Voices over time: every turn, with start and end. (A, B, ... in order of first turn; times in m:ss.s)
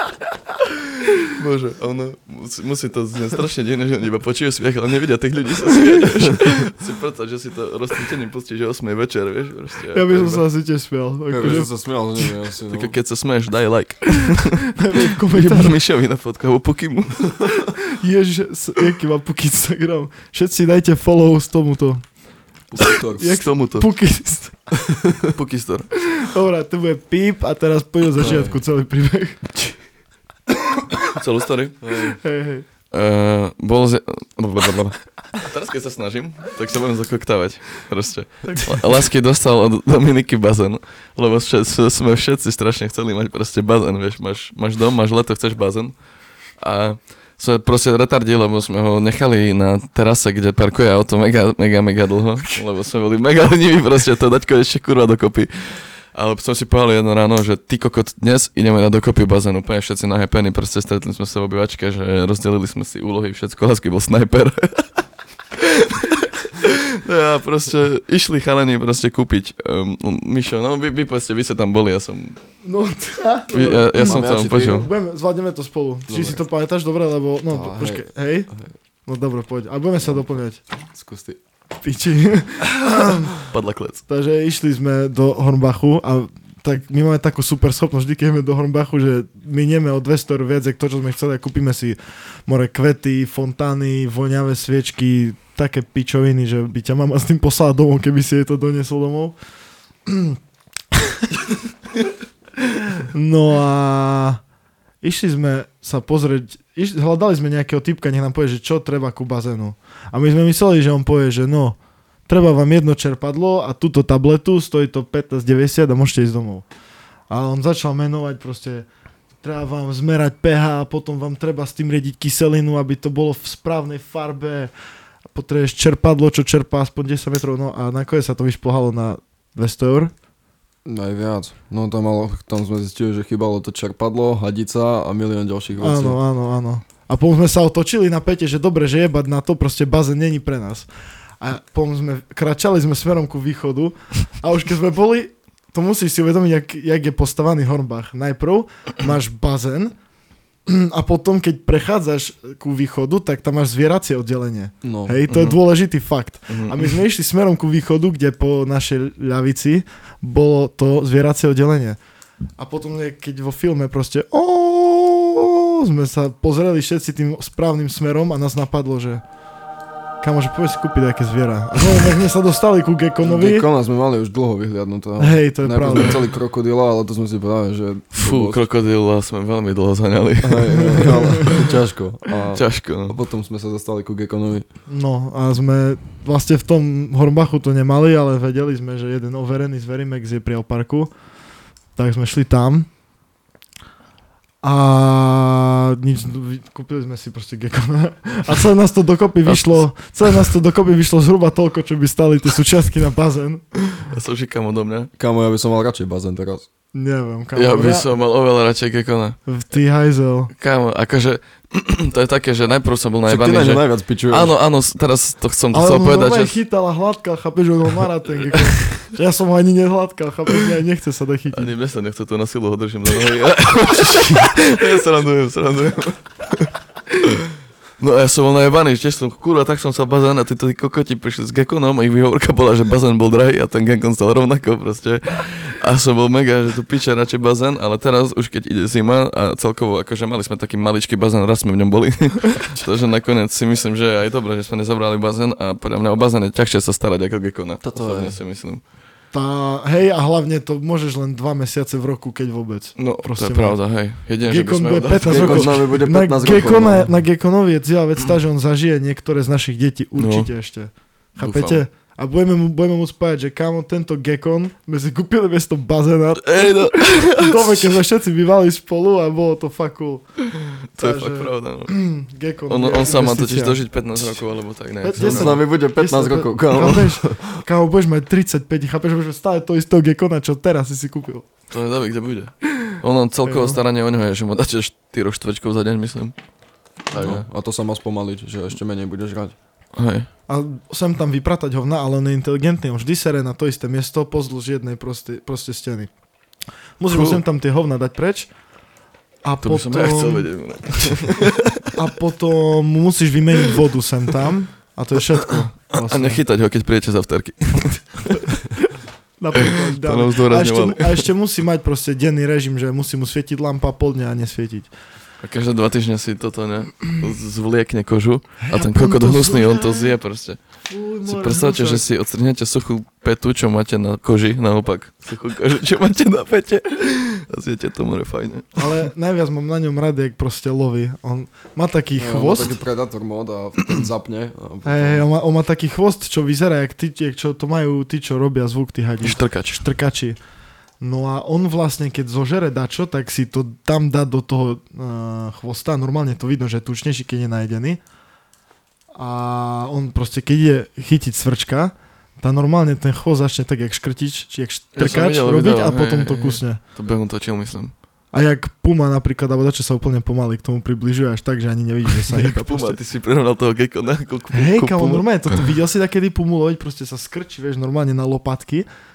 0:01.2-0:10.4 A
0:09.9-0:11.7 B
0:11.3-0:12.9 C
0:12.7-0:17.6 A
0:14.6-0:15.7 B
0:17.6-0:22.0 B
0:22.7-0:23.3 C
0:22.8-0:23.9 A
0:23.2-0:24.5 B
0:24.9-0:25.3 C
0:25.2-0:25.9 A
0:26.1-0:29.7 B
0:28.2-0:28.6 C
0:31.1-0:32.1 A
0:31.8-0:32.1 C
0:32.2-0:32.6 B
0:32.9-0:45.9 A
0:46.6-1:04.9 A
1:05.5-1:12.4 A
1:12.6-1:18.5 B
1:13.5-1:14.9 A
1:13.9-1:14.9 C
1:16.1-1:16.4 C
1:17.5-1:18.7 C
1:19.0-1:20.6 B
1:20.9-1:21.4 C
1:21.8-1:23.4 B
1:23.4-1:24.0 A
1:24.1-1:39.3 B
1:40.1-1:40.4 B
1:43.0-1:44.4 B
1:45.0-1:51.8 B
1:52.3-1:56.6 B
1:57.3-1:58.8 B
1:59.4-2:04.7 B
2:05.3-2:10.1 B
2:10.8-2:16.2 C
2:15.8-2:20.9 B
2:21.4-2:29.9 B
2:30.7-2:42.0 B
2:34.8-2:35.2 C
2:35.3-2:35.6 A
2:36.5-2:37.0 A
2:42.6-2:49.2 B
2:50.2-2:53.6 B
2:53.2-2:58.6 C
2:55.2-2:56.2 B
2:58.1-3:01.7 A
3:00.4-3:04.6 C
3:00.8-3:01.7 B
3:02.5-3:03.2 A
3:04.9-3:11.1 B
3:12.0-3:12.9 B
3:14.6-3:24.0 B
3:19.4-3:19.8 A
3:24.1-3:25.1 A
3:25.2-3:26.6 C
3:26.9-3:28.1 B
3:27.5-3:29.4 A
3:29.5-3:30.5 B
3:30.5-3:36.6 A
3:33.3-3:34.5 C
3:35.7-3:41.7 B
3:38.5-3:39.0 A
3:41.5-4:08.8 A
4:07.8-4:08.4 C
4:09.3-4:13.8 B
4:13.0-4:15.9 A
4:14.4-4:30.2 B
4:15.2-4:17.1 C
4:20.2-4:20.5 A
4:21.4-4:21.8 A
4:26.4-4:27.9 A
4:30.9-4:31.9 A
4:31.0-4:34.3 B
4:32.7-4:35.6 A
4:35.0-4:41.4 B
4:35.2-4:37.6 C
4:41.7-4:46.3 A
4:43.4-4:43.8 B
4:47.1-4:47.4 A
4:47.1-4:49.5 C
4:49.9-4:50.3 A
4:50.5-4:56.1 B
4:57.0-4:58.5 B
4:57.1-4:57.4 A
4:59.4-5:00.5 B
4:59.6-5:01.9 A
5:01.9-5:06.4 B
5:05.5-5:08.5 A
5:08.4-5:14.9 B
5:09.6-5:11.3 A
5:15.4-5:20.6 A
5:18.7-5:20.1 B
5:20.9-5:22.0 B
5:21.2-5:29.0 A
5:28.8-5:32.8 B
5:32.2-5:35.2 C
5:34.8-5:40.4 B
5:39.2-5:39.8 A
5:41.0-5:48.0 B
5:49.1-5:56.8 B
5:55.0-5:57.9 A
5:58.3-6:03.0 B
6:02.3-6:05.7 A
6:04.5-6:08.8 B